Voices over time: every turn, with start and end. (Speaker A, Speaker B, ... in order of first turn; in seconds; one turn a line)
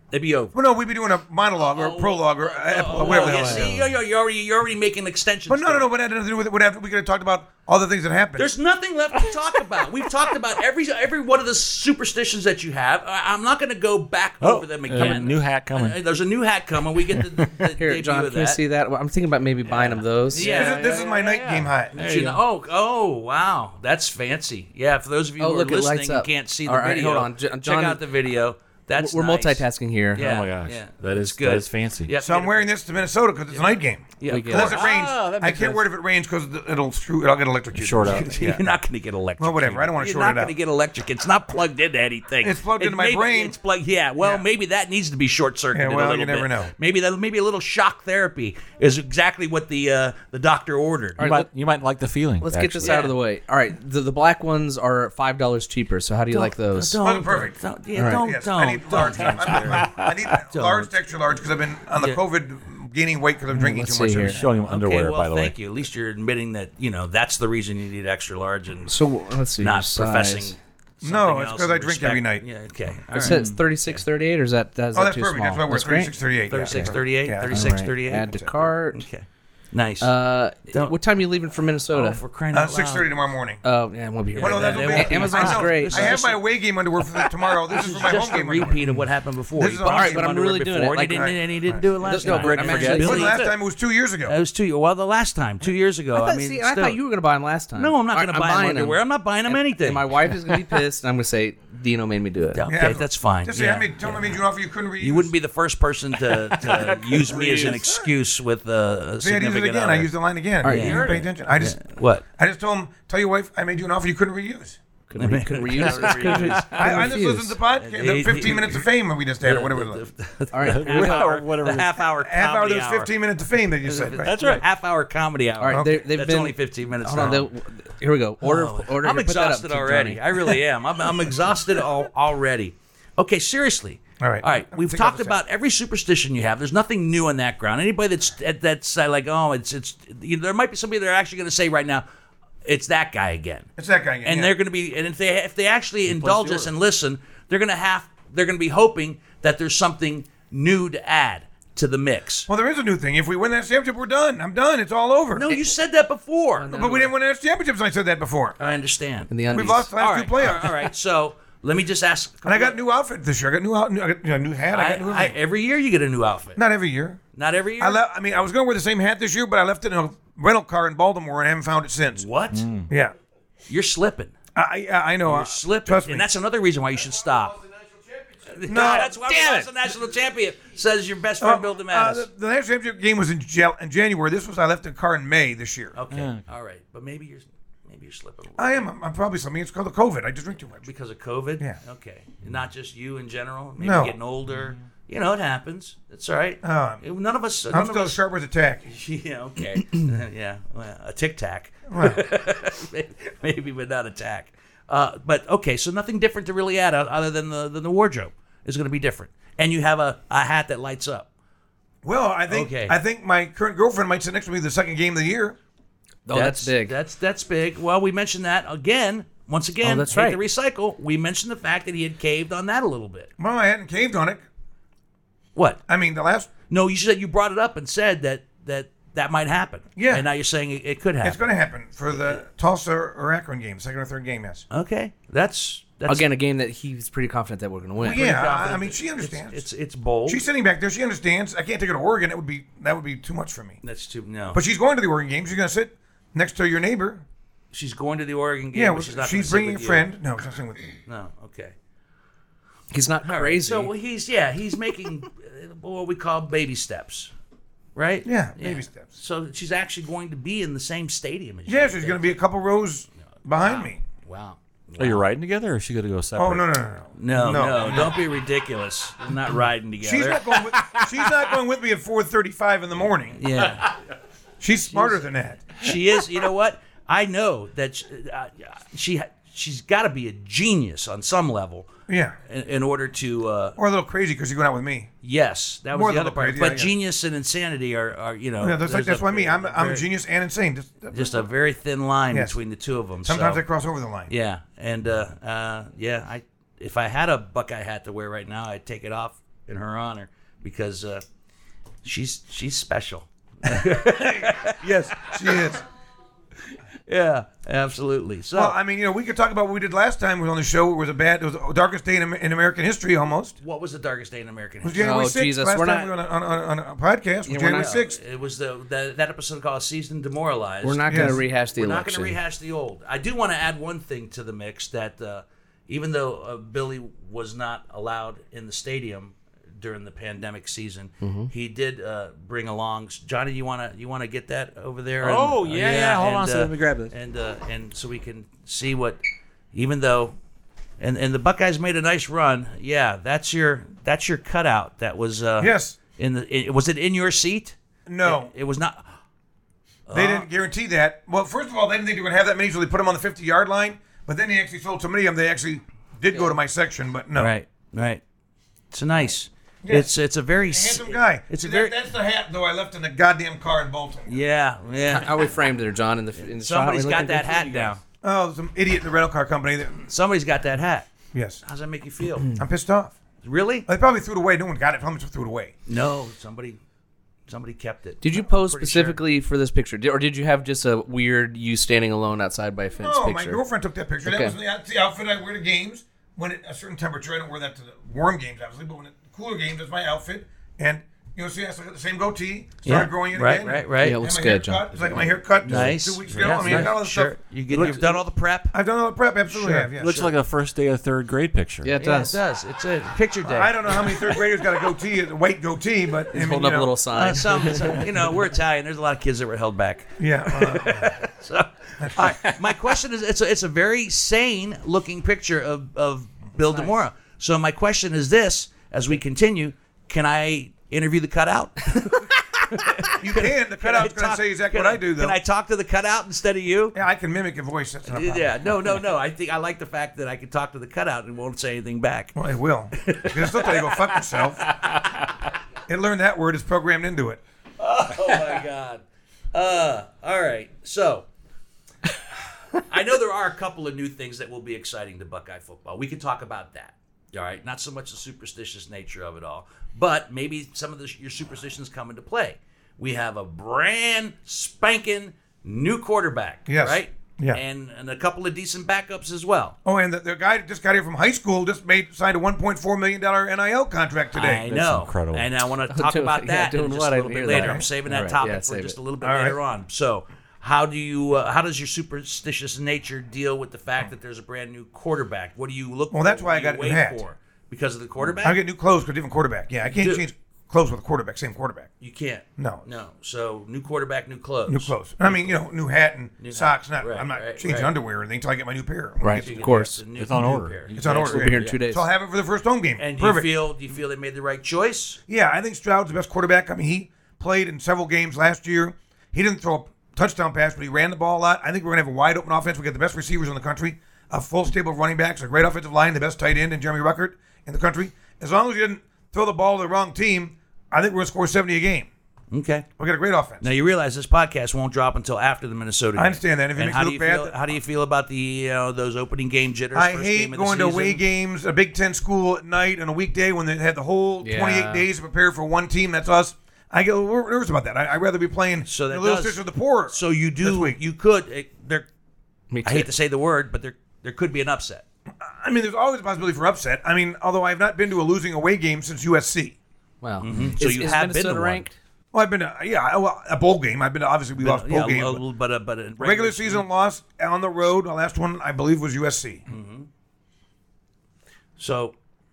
Speaker A: 0.1-0.6
Speaker B: 0.5-3.9
Speaker A: 1.6-5.9
Speaker C: 3.0-3.7
Speaker B: 5.5-8.5
Speaker A: 8.4-18.6
Speaker D: 14.4-16.0
Speaker D: 17.1-17.4
Speaker C: 17.8-20.5
Speaker D: 19.7-22.4
Speaker A: 20.3-21.0
Speaker B: 20.4-22.0
Speaker A: 21.9-32.6
Speaker C: 25.4-28.0
Speaker C: 29.0-30.5
Speaker D: 30.2-32.1
Speaker B: 32.2-38.7
Speaker A: 34.2-35.0
Speaker C: 34.3-34.8
Speaker D: 34.5-35.8
Speaker D: 37.8-38.4
Speaker A: 38.0-51.2
Speaker B: 39.4-40.5
Speaker B: 42.4-43.6
Speaker B: 45.7-46.7
Speaker C: 51.2-51.5
Speaker D: 51.2-53.1
Speaker C: 52.4-57.0
Speaker A: 52.8-53.1
Speaker A: 56.3-60.9
Speaker B: 57.0-64.5
Speaker C: 58.0-58.2
Speaker D: 59.4-59.9
Speaker C: 63.5-64.4
Speaker D: 64.2-65.5
Speaker A: 64.5-68.9
Speaker C: 68.9-70.6
Speaker A: 69.6-73.4
Speaker B: 71.0-72.4
Speaker C: 73.1-79.0
Speaker D: 73.2-73.6
Speaker B: 74.9-78.5
Speaker A: 76.5-80.1
Speaker C: 80.0-82.2
Speaker A: 81.9-83.1
Speaker B: 82.5-83.6
Speaker C: 83.6-86.2
Speaker A: 84.4-86.5
Speaker B: 84.4-89.0
Speaker A: 87.2-93.5
Speaker B: 89.6-90.3
Speaker C: 89.8-91.4
Speaker B: 91.1-94.4
Speaker C: 92.0-93.3
Speaker D: 92.2-93.5
Speaker A: 94.3-97.0
Speaker C: 96.1-102.6
Speaker A: 97.8-100.6
Speaker A: 102.5-104.4
Speaker B: 102.7-105.3
Speaker A: 105.0-110.1
Speaker D: 106.5-107.8
Speaker B: 106.8-108.1
Speaker B: 109.2-111.8
Speaker C: 110.6-111.1
Speaker A: 110.7-112.2
Speaker D: 110.8-111.3
Speaker B: 112.3-114.8
Speaker C: 115.1-117.6
Speaker A: 115.2-117.1
Speaker D: 115.8-117.0
Speaker B: 116.7-120.1
Speaker A: 117.8-118.8
Speaker A: 119.4-123.1
Speaker C: 120.5-121.3
Speaker D: 120.6-122.0
Speaker B: 122.2-124.4
Speaker A: 123.8-127.5
Speaker D: 124.2-124.6
Speaker C: 125.6-130.5
Speaker B: 125.7-126.0
Speaker A: 128.4-142.0
Speaker B: 134.2-135.4
Speaker A: 142.7-143.7
Speaker B: 143.8-144.5
Speaker A: 144.2-152.5
Speaker D: 146.1-146.7
Speaker B: 152.5-155.7
Speaker A: 155.3-156.8
Speaker C: 156.6-157.1
Speaker B: 156.7-158.6
Speaker A: 158.6-159.3
Speaker C: 159.3-159.9
Speaker B: 159.5-160.8
Speaker A: 160.0-162.8
Speaker B: 162.4-165.4
Speaker A: 164.7-166.6
Speaker B: 166.6-167.2
Speaker A: 167.3-168.0
Speaker B: 167.8-172.3
Speaker A: 172.2-172.6
Speaker D: 172.5-172.9
Speaker B: 172.9-173.2
Speaker A: 173.7-174.3
Speaker B: 174.6-176.3
Speaker A: 175.2-177.7
Speaker A: 178.4-182.3
Speaker B: 178.7-179.3
Speaker D: 178.7-179.7
Speaker B: 181.4-186.0
Speaker A: 185.9-188.9
Speaker D: 186.1-186.4
Speaker B: 188.6-190.9
Speaker A: 190.8-198.2
Speaker B: 193.8-194.2
Speaker B: 196.6-197.0
Speaker B: 197.7-198.9
Speaker A: 198.9-211.3
Speaker B: 201.9-202.3
Speaker B: 212.0-215.6
Speaker A: 212.5-213.0
Speaker C: 216.3-216.9
Speaker A: 216.3-223.3
Speaker C: 219.8-220.4
Speaker B: 223.4-224.4
Speaker A: 225.6-225.8
Speaker B: 225.9-226.5
Speaker A: 226.7-231.4
Speaker B: 230.0-230.3
Speaker B: 231.2-234.6
Speaker A: 232.1-232.4
Speaker A: 234.7-236.3
Speaker C: 236.1-238.2
Speaker B: 238.0-239.7
Speaker A: 238.0-240.4
Speaker B: 240.3-243.8
Speaker A: 243.8-244.6
Speaker B: 244.5-247.2
Speaker A: 247.7-250.1
Speaker B: 248.7-251.0
Speaker A: 251.1-251.7
Speaker C: 252.9-253.9
Speaker A: 253.2-257.3
Speaker A: 257.9-262.3
Speaker B: 258.2-259.1
Speaker B: 261.7-264.0
Speaker A: 263.4-265.2
Speaker D: 265.0-266.7
Speaker B: 266.4-268.2
Speaker A: 267.1-270.5
Speaker B: 270.0-273.5
Speaker A: 273.4-273.9
Speaker B: 274.6-275.7
Speaker A: 274.9-283.8
Speaker B: 282.1-282.4
Speaker B: 283.8-285.1
Speaker A: 285.2-290.1
Speaker B: 285.9-286.9
Speaker B: 288.6-291.5
Speaker A: 291.1-293.6
Speaker B: 292.3-292.6
Speaker B: 293.2-294.3
Speaker A: 294.3-301.2
Speaker A: 302.0-305.8
Speaker B: 304.2-305.8
Speaker A: 307.1-308.8
Speaker B: 308.5-313.6
Speaker A: 313.6-315.2
Speaker B: 314.8-318.2
Speaker C: 315.0-316.1
Speaker C: 317.5-317.9
Speaker A: 317.7-339.2
Speaker C: 320.8-322.4
Speaker B: 321.1-321.4
Speaker C: 331.2-331.5
Speaker D: 335.2-337.1
Speaker A: 339.7-340.4
Speaker A: 341.0-349.1
Speaker B: 345.6-346.0
Speaker B: 348.1-348.5
Speaker A: 350.1-350.5
Speaker B: 350.1-357.5
Speaker A: 357.4-358.2
Speaker A: 358.9-361.9
Speaker B: 359.8-360.1
Speaker B: 360.7-364.4
Speaker A: 364.3-365.5
Speaker C: 365.1-368.0
Speaker A: 366.4-368.0
Speaker B: 368.2-370.1
Speaker A: 370.1-371.1
Speaker B: 371.3-371.6
Speaker A: 371.6-372.5
Speaker B: 372.6-373.1
Speaker A: 373.4-373.9
Speaker B: 373.9-375.7
Speaker A: 375.9-376.8
Speaker A: 377.5-379.2
Speaker C: 378.2-383.6
Speaker B: 383.0-398.2
Speaker C: 384.2-384.6
Speaker A: 392.8-394.2
Speaker C: 394.0-395.3
Speaker A: 395.6-398.7
Speaker D: 395.7-396.0
Speaker D: 396.5-396.9
Speaker B: 398.7-400.2
Speaker A: 399.5-400.3
Speaker D: 399.9-401.9
Speaker C: 401.8-402.4
Speaker A: 402.0-404.6
Speaker B: 403.4-407.0
Speaker C: 406.3-408.0
Speaker A: 407.1-427.0
Speaker B: 410.2-411.1
Speaker B: 412.0-412.3
Speaker B: 423.1-425.4
Speaker B: 426.9-428.5
Speaker A: 428.1-432.4
Speaker B: 432.4-434.7
Speaker A: 432.9-435.0
Speaker B: 435.9-437.4
Speaker A: 437.8-439.0
Speaker A: 439.5-441.3
Speaker A: 442.7-459.8
Speaker B: 456.7-457.6
Speaker B: 459.9-464.8
Speaker A: 464.3-478.6
Speaker D: 464.7-465.5
Speaker C: 465.9-469.0
Speaker B: 467.5-467.9
Speaker B: 469.2-469.6
Speaker B: 476.1-477.2
Speaker B: 478.4-481.9
Speaker A: 479.9-480.2
Speaker A: 482.0-485.6
Speaker B: 482.6-482.8
Speaker B: 484.7-489.8
Speaker A: 486.4-487.9
Speaker C: 489.2-490.0
Speaker A: 489.3-491.6
Speaker D: 490.2-491.8
Speaker B: 490.9-493.5
Speaker C: 491.1-492.1
Speaker A: 493.0-495.2
Speaker B: 495.3-512.1
Speaker A: 512.5-512.9
Speaker B: 513.0-513.6
Speaker A: 513.6-521.2
Speaker B: 516.1-517.6
Speaker B: 519.9-531.0
Speaker C: 524.4-525.1
Speaker A: 528.9-532.1
Speaker C: 532.7-533.1
Speaker A: 532.9-535.0
Speaker B: 535.4-539.8
Speaker C: 540.2-542.0
Speaker A: 540.4-541.9
Speaker B: 542.3-545.4
Speaker A: 544.6-546.9
Speaker B: 546.2-549.6
Speaker A: 549.7-550.1
Speaker A: 551.8-552.1